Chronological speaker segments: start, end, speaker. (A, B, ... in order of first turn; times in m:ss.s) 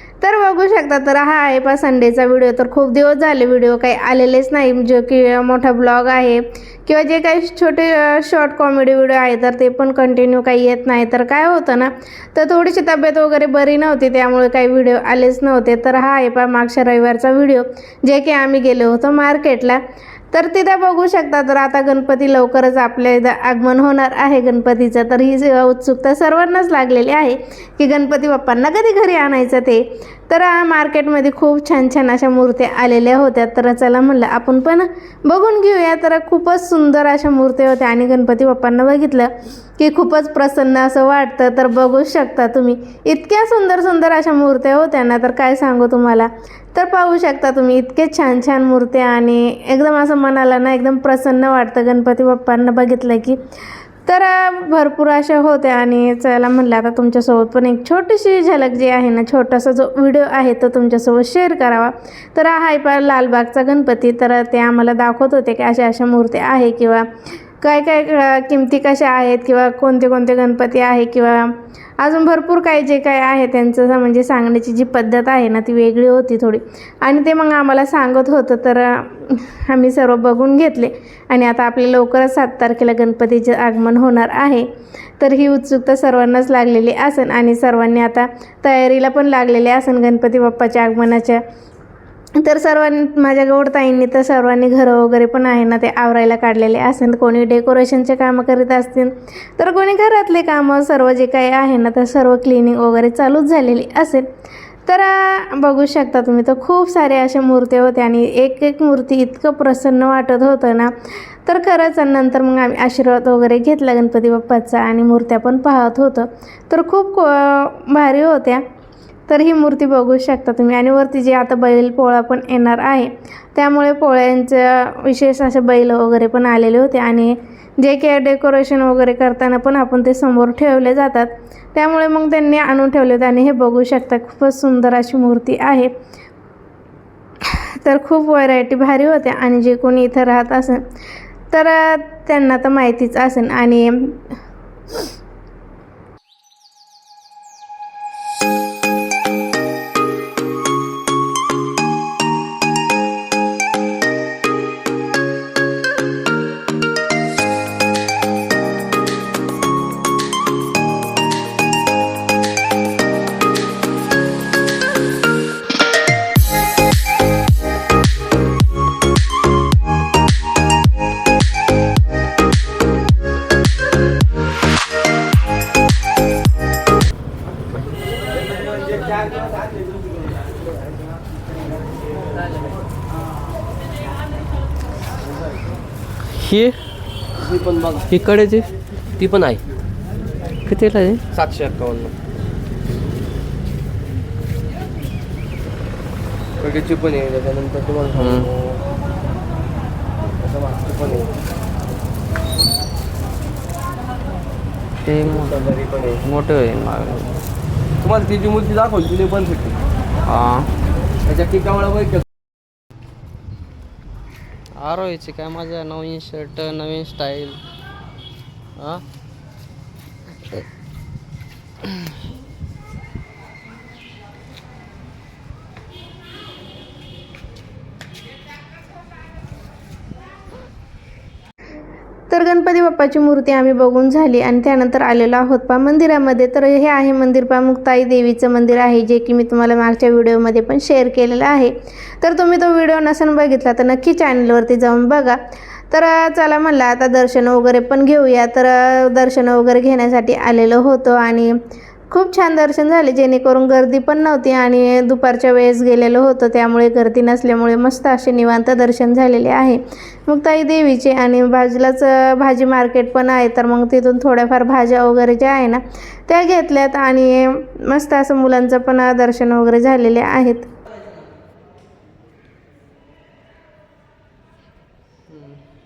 0:00.2-0:19.8 A
0:20.3-0:53.4 A
0:54.0-1:07.1 A
1:07.6-1:31.4 A
1:32.4-1:44.3 A
1:44.8-1:50.9 A
1:51.4-1:58.6 A
1:59.3-2:15.9 A
2:17.4-2:20.8 A
2:21.5-2:24.3 A
3:06.3-3:06.8 B
3:07.5-3:08.1 C
3:08.0-3:08.7 B
3:09.2-3:09.6 C
3:10.6-3:11.2 B
3:11.5-3:12.1 C
3:16.6-3:18.3 C
3:18.1-3:18.5 B
3:20.8-3:21.3 C
3:25.0-3:27.3 B
3:25.7-3:26.2 C
3:28.0-3:29.8 C
3:30.3-3:30.7 B
3:31.2-3:32.2 C
3:34.8-3:37.6 B
3:38.8-3:39.0 B
3:52.3-4:05.4 A
4:05.9-4:11.6 A
4:12.1-4:30.7 A
4:35.3-4:35.6 B